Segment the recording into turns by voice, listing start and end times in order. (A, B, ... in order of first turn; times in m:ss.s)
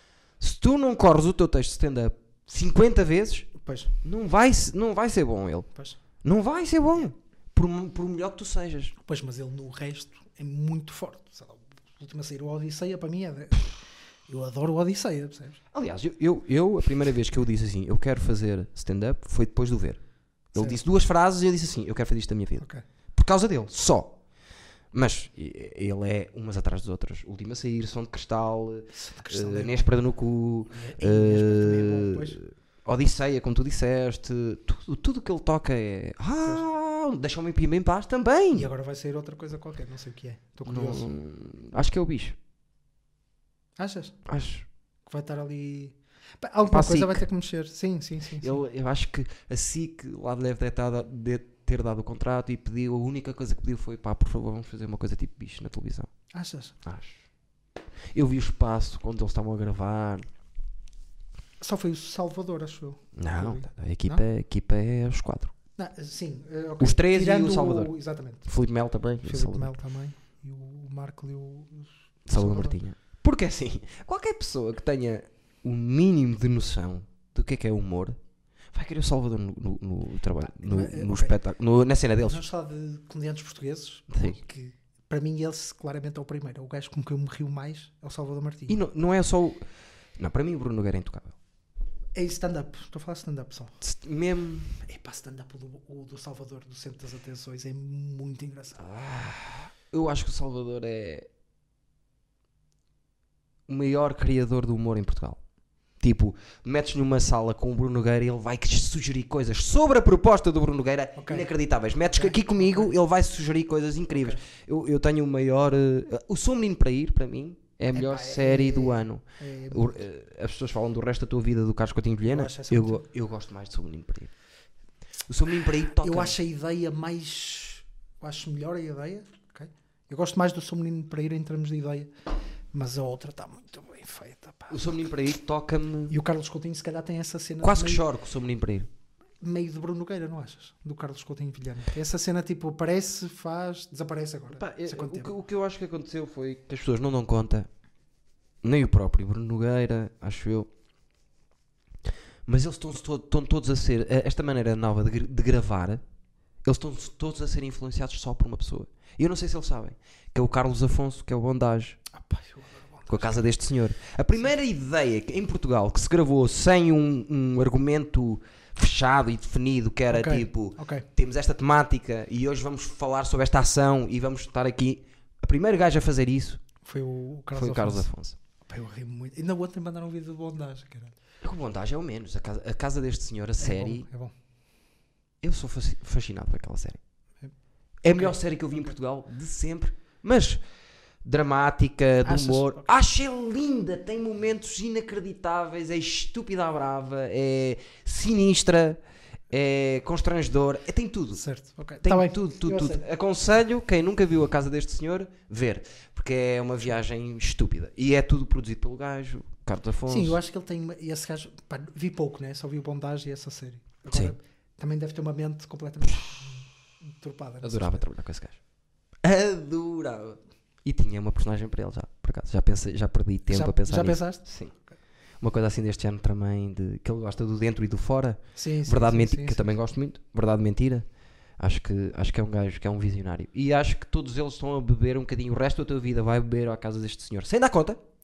0:00.4-0:03.5 A
0:03.6-0:03.9 B
0:04.0-0:05.7 A
0:06.2-0:08.9 A
0:09.0-0:15.6 B
0:15.7-0:20.0 A
0:20.5-0:24.2 A
0:20.6-0:20.8 B
0:24.9-0:38.7 A
0:28.9-0:29.9 B
0:30.7-0:32.4 B
0:38.5-0:41.1 B
0:40.7-0:42.4 A
0:43.8-0:44.2 B
0:44.3-0:44.7 A
0:45.1-0:48.6 B
0:46.7-0:47.2 A
0:48.4-0:56.1 A
0:56.3-0:56.8 B
0:56.8-0:57.2 A
0:58.1-1:00.3 A
1:01.6-1:04.2 B
1:03.2-1:05.5 A
1:05.8-1:08.5 B
1:06.8-1:08.0 A
1:08.5-1:09.7 A
1:09.2-1:12.8 B
1:12.3-1:18.2 A
1:18.7-1:22.4 A
1:20.4-1:21.4 B
1:22.2-1:28.8 B
1:24.1-1:24.4 A
1:28.7-1:29.6 A
1:30.2-1:31.4 A
1:32.1-1:33.8 B
1:33.8-1:34.8 A
1:34.8-1:38.8 B
1:38.8-1:41.3 A
1:43.7-1:45.4 A
1:46.0-2:04.3 A
1:51.2-1:51.5 B
1:52.1-1:53.0 B
1:54.1-1:54.4 B
1:57.9-2:00.0 B
2:02.3-2:03.0 B
2:05.3-2:06.4 A
2:06.0-2:12.1 B
2:12.7-2:14.9 B
2:14.7-2:16.2 A
2:16.1-2:18.1 B
2:17.6-2:18.9 A
2:19.4-2:25.3 B
2:24.6-2:27.7 A
2:28.6-2:30.7 A
2:32.5-2:36.0 A
2:36.6-2:42.0 A
2:42.1-2:43.5 B
2:43.1-2:56.6 A
2:50.1-2:51.1 B
2:56.8-2:58.1 B
2:57.5-2:58.4 A
2:58.6-3:01.2 B
3:01.4-3:04.1 A
3:03.6-3:04.3 B
3:05.4-3:07.0 A
3:08.0-3:10.6 A
3:08.1-3:08.9 B
3:11.2-3:19.0 A
3:12.2-3:12.9 B
3:19.5-3:21.4 A
3:21.4-3:23.0 B
3:22.0-3:30.4 A
3:30.1-3:38.0 B
3:37.6-3:38.6 A
3:39.2-3:44.7 A
3:43.5-3:45.0 B
3:45.4-3:51.1 A
3:48.6-3:49.8 B
3:51.6-3:58.0 A